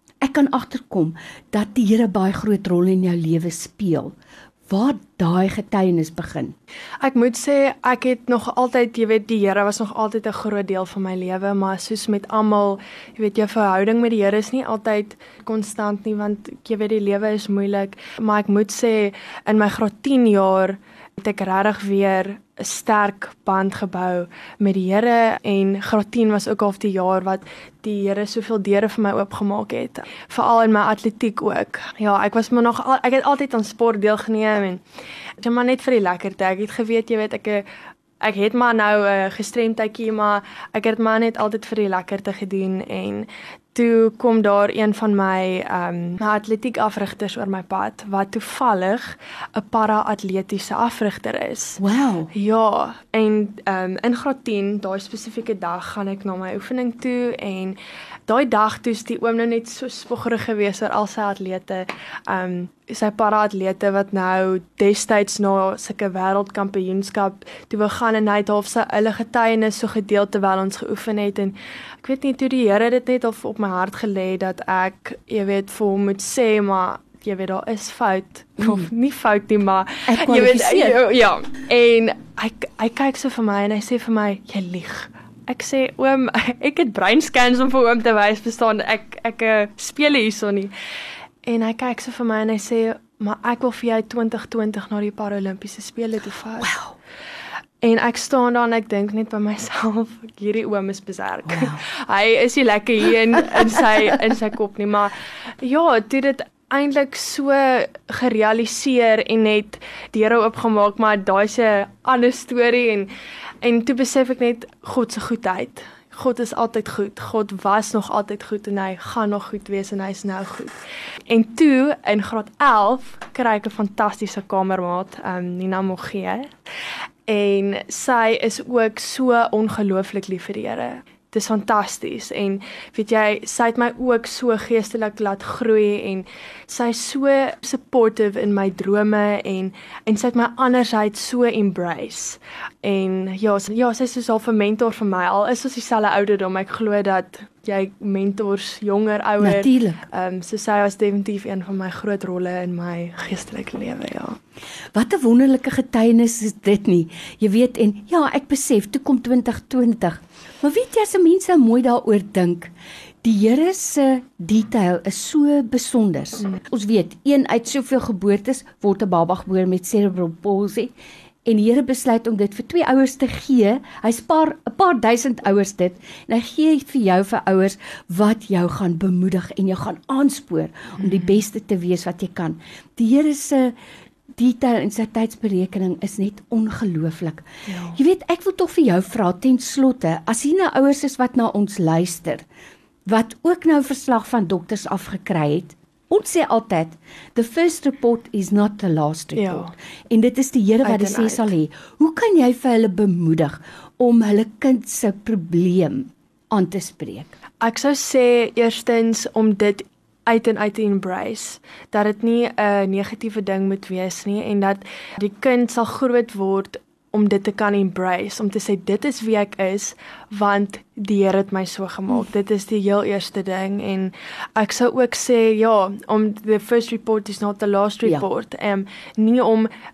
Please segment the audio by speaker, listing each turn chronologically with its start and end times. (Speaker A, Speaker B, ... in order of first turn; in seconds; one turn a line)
Speaker A: 0.2-4.1
Speaker A: 4.7-6.5
Speaker B: 7.0-34.8
Speaker B: 35.4-37.6
Speaker B: 38.2-51.8
Speaker A: 51.8-52.3
Speaker B: 52.3-90.7
Speaker A: 78.6-78.9
Speaker A: 80.1-81.0
Speaker B: 91.4-96.7
Speaker A: 96.6-96.9
Speaker B: 97.8-113.1
Speaker A: 101.5-101.8
Speaker B: 113.6-120.8
Speaker B: 121.3-126.5
Speaker B: 127.3-154.4
Speaker A: 149.4-150.0
Speaker A: 154.9-162.7
Speaker A: 163.2-170.9
Speaker A: 171.4-183.7
Speaker B: 181.0-181.4
Speaker A: 184.4-192.4
Speaker B: 187.7-188.0
Speaker A: 193.1-207.3
Speaker B: 199.3-199.7
Speaker B: 200.8-201.5
Speaker B: 207.6-229.7